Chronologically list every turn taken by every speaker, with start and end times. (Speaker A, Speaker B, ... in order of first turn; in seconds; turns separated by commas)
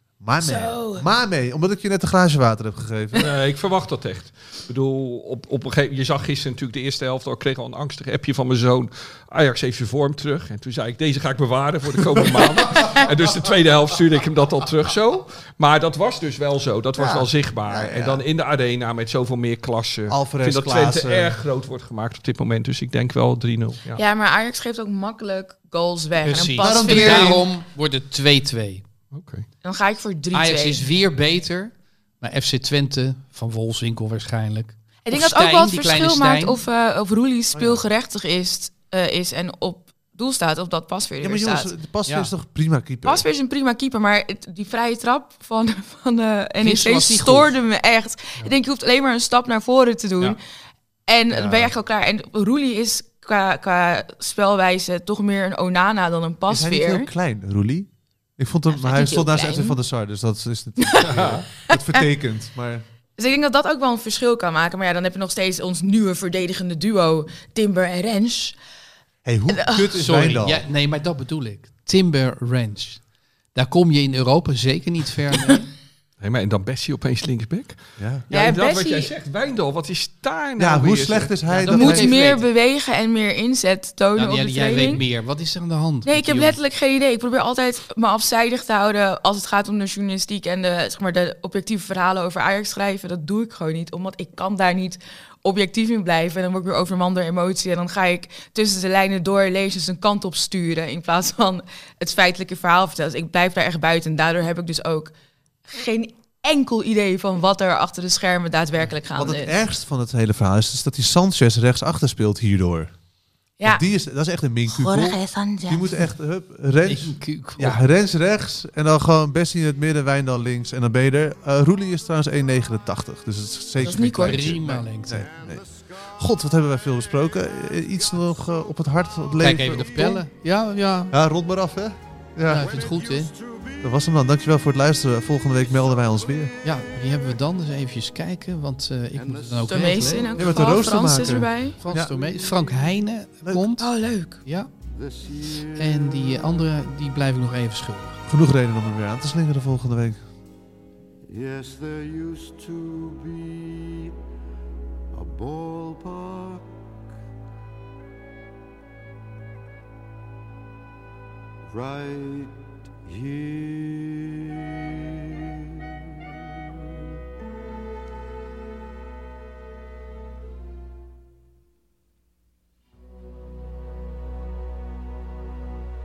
Speaker A: 0.2-3.3, Speaker B: 0.4-1.1, Speaker C: 3.1-24.0, Speaker A: 16.9-18.2, Speaker A: 20.1-21.4, Speaker B: 23.9-27.4, Speaker D: 26.2-28.8, Speaker A: 26.6-27.4, Speaker C: 29.1-29.4, Speaker B: 29.6-30.8, Speaker D: 30.3-36.6, Speaker B: 35.0-41.7, Speaker A: 37.5-37.8, Speaker A: 41.2-43.2, Speaker D: 42.0-42.3, Speaker B: 43.0-50.4, Speaker D: 46.6-47.5, Speaker B: 51.1-57.1, Speaker A: 51.3-51.8, Speaker A: 56.5-62.8, Speaker B: 58.7-59.8, Speaker B: 60.8-61.1, Speaker C: 61.0-61.4, Speaker B: 63.2-68.5, Speaker A: 69.2-70.6, Speaker B: 69.5-70.0, Speaker D: 70.0-73.0, Speaker D: 73.5-75.7, Speaker C: 76.2-81.3, Speaker A: 78.0-78.2, Speaker B: 78.3-79.1, Speaker A: 80.6-82.2, Speaker D: 81.5-82.5, Speaker B: 81.7-85.0, Speaker D: 84.1-86.6, Speaker B: 86.0-105.1, Speaker B: 105.7-109.5, Speaker A: 109.1-112.9, Speaker A: 113.6-130.2, Speaker B: 114.7-115.9, Speaker D: 116.8-117.8, Speaker B: 123.8-124.5, Speaker D: 124.2-125.3, Speaker E: 125.3-126.1, Speaker D: 129.4-131.1, Speaker A: 131.1-132.7, Speaker D: 132.4-133.3, Speaker E: 132.6-133.8, Speaker A: 133.8-136.5, Speaker D: 136.6-140.3, Speaker E: 139.2-140.7, Speaker B: 139.7-141.8, Speaker A: 140.4-142.1, Speaker D: 141.8-143.9, Speaker E: 142.2-142.5, Speaker B: 143.8-144.4, Speaker D: 144.4-144.7, Speaker E: 144.9-146.4, Speaker D: 145.8-148.2, Speaker A: 148.3-150.2, Speaker E: 151.3-154.1, Speaker E: 155.1-156.6, Speaker E: 161.7-166.3